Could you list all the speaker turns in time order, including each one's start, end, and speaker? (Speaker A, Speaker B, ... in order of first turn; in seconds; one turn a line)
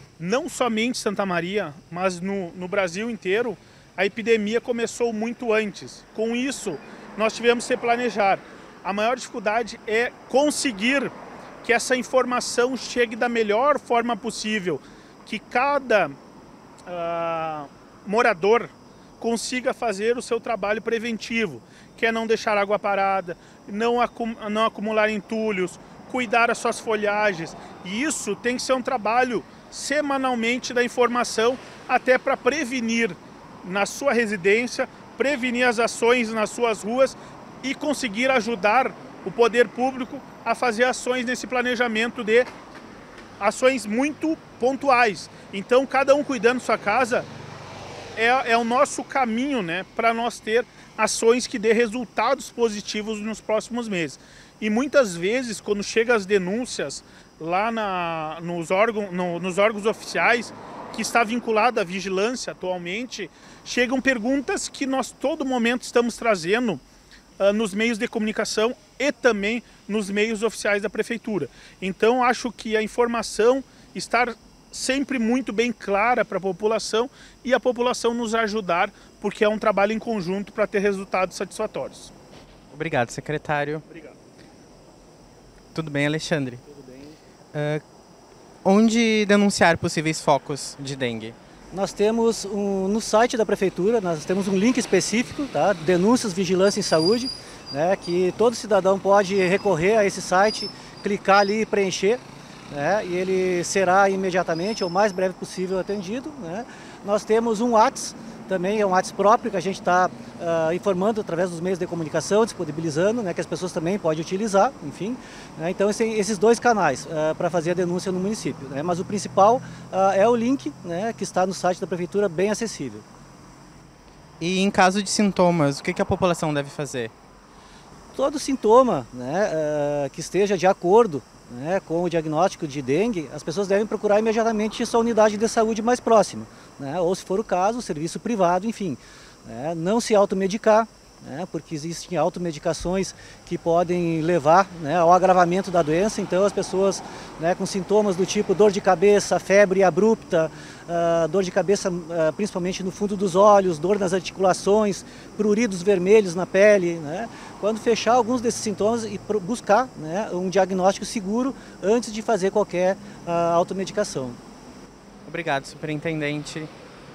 Speaker A: 0.2-11.1
Speaker A: 11.6-16.1
Speaker A: 16.9-42.5
Speaker A: 43.4-47.3
Speaker A: 48.2-66.8
Speaker A: 67.4-82.1
Speaker B: 82.7-83.8
Speaker A: 83.9-84.2
Speaker B: 85.7-86.6
Speaker B: 87.5-87.8
Speaker B: 88.7-91.4
Speaker C: 91.7-123.1
Speaker B: 124.4-127.1
Speaker C: 128.1-164.4
Speaker B: 165.2-166.7